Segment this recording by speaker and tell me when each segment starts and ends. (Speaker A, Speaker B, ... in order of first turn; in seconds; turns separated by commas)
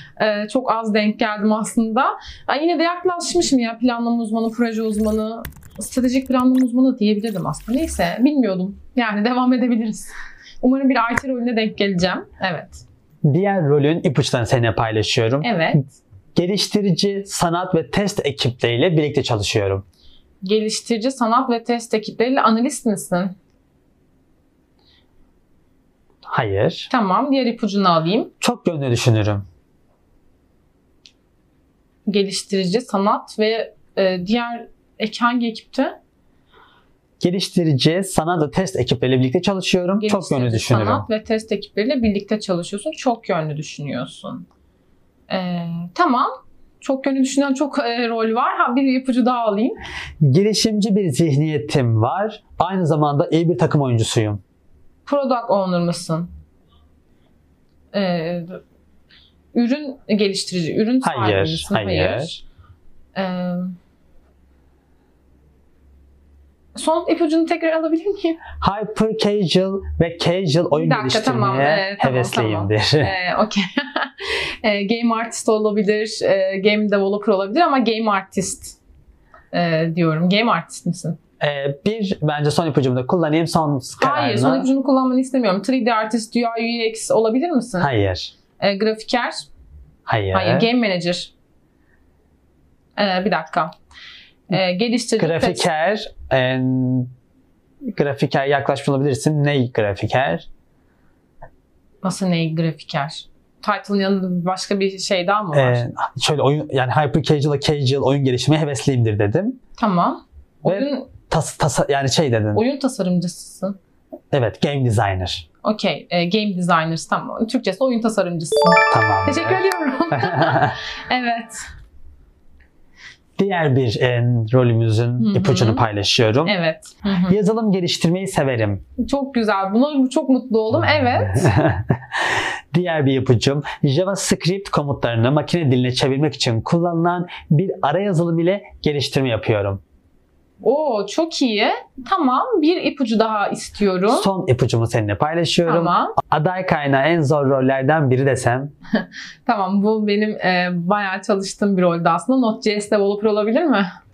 Speaker A: 0.2-12.8, Speaker B: 13.2-15.8, Speaker A: 15.4-16.0, Speaker B: 16.4-19.9, Speaker A: 20.4-23.4, Speaker B: 26.3-26.9, Speaker A: 26.9-28.3, Speaker B: 28.4-29.4, Speaker A: 32.1-36.0, Speaker B: 37.2-41.1, Speaker A: 40.0-44.5, Speaker A: 45.3-46.3, Speaker A: 46.8-49.8, Speaker B: 50.2-54.4, Speaker A: 55.1-56.3, Speaker A: 57.9-58.6, Speaker A: 59.5-62.4, Speaker B: 61.0-62.3, Speaker A: 63.1-63.7, Speaker A: 66.8-68.4, Speaker B: 68.6-73.1, Speaker A: 70.7-78.8, Speaker A: 79.5-81.2, Speaker B: 81.4-84.7, Speaker A: 84.0-87.9, Speaker B: 87.8-88.3, Speaker A: 88.6-89.4, Speaker B: 90.1-90.7, Speaker A: 90.3-91.3, Speaker A: 93.0-93.7, Speaker A: 94.5-95.7, Speaker B: 95.2-97.1, Speaker B: 97.9-100.5, Speaker A: 102.0-105.8, Speaker B: 105.5-109.6, Speaker A: 109.8-111.1, Speaker B: 110.7-112.6, Speaker A: 112.5-113.8, Speaker B: 114.3-115.5, Speaker A: 115.6-121.7, Speaker B: 118.9-120.8, Speaker B: 123.4-126.5, Speaker A: 125.2-125.8, Speaker A: 126.4-127.4, Speaker B: 127.3-128.8, Speaker A: 129.0-131.5, Speaker B: 131.2-139.8, Speaker A: 140.6-144.3, Speaker B: 144.1-148.7, Speaker A: 145.7-146.2, Speaker A: 149.0-153.9